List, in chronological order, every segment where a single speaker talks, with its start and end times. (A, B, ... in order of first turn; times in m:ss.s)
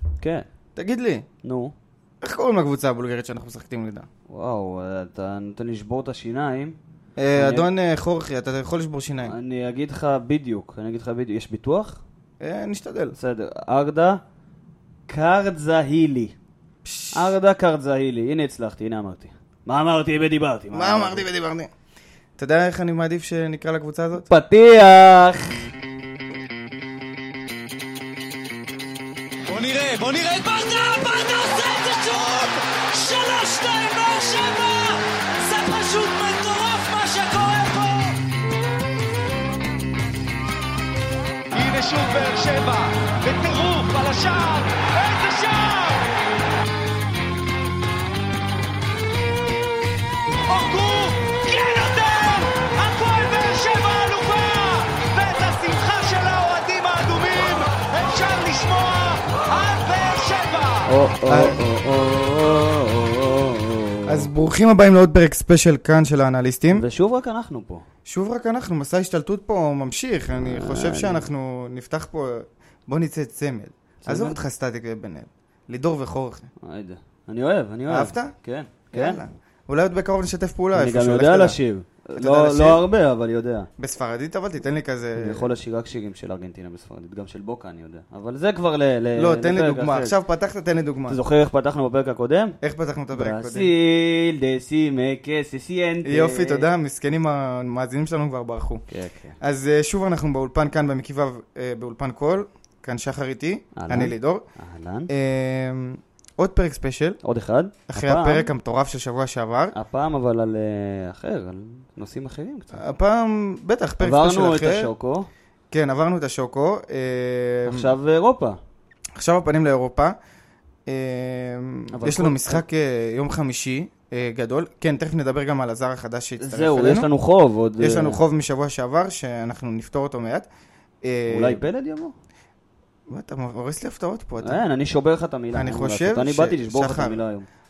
0:00.2-0:00.4 A
0:00.8-0:01.2 B
0:01.4-0:01.7 A
0:02.2-0:04.1 B
0:04.3-0:06.8 A
0:07.2-0:09.3 B
0:07.4-0:07.7 A
0:09.2-0:12.0 A
0:12.4-0:13.2 B
0:13.2-0:14.2 A
0:15.1-0:16.3 A
0:16.8-0:17.4 B
0:17.1-0:21.3 A
0:20.7-0:21.7 B
0:22.4-0:24.3 B
0:24.3-0:25.7 A
0:29.5-0:38.2 C
0:41.5-0:46.1 C
0:50.5-1:00.9 C
1:00.9-1:04.3 A
1:01.3-1:01.6 B
1:04.1-1:06.8 B
1:06.7-1:07.8 A
1:08.1-1:16.5 B
1:10.4-1:11.3 A
1:14.0-1:14.4 A
1:16.6-1:19.2 A
1:17.9-1:18.3 B
1:18.9-1:21.6 B
1:20.7-1:23.7 A
1:22.2-1:22.8 B
1:23.8-1:25.5 B
1:25.2-1:30.1 A
1:29.2-1:31.2 B
1:31.1-1:32.6 A
1:32.6-1:33.7 B
1:33.1-1:36.7 A
1:36.0-1:38.8 B
1:38.9-1:39.4 A
1:39.4-1:44.4 B
1:43.8-1:45.1 A
1:45.1-1:47.2 B
1:47.2-1:48.5 A
1:47.9-1:49.8 B
1:49.7-1:52.8 A
1:52.8-1:54.9 B
1:54.0-1:55.3 A
1:55.7-1:57.9 B
1:57.7-1:58.6 A
1:59.2-2:00.2 B
2:00.9-2:07.1 B
2:01.9-2:02.6 A
2:06.4-2:08.2 A
2:07.8-2:10.5 B
2:11.0-2:11.6 B
2:11.3-2:12.1 A
2:13.1-2:14.6 B
2:14.4-2:17.5 A
2:15.6-2:17.2 B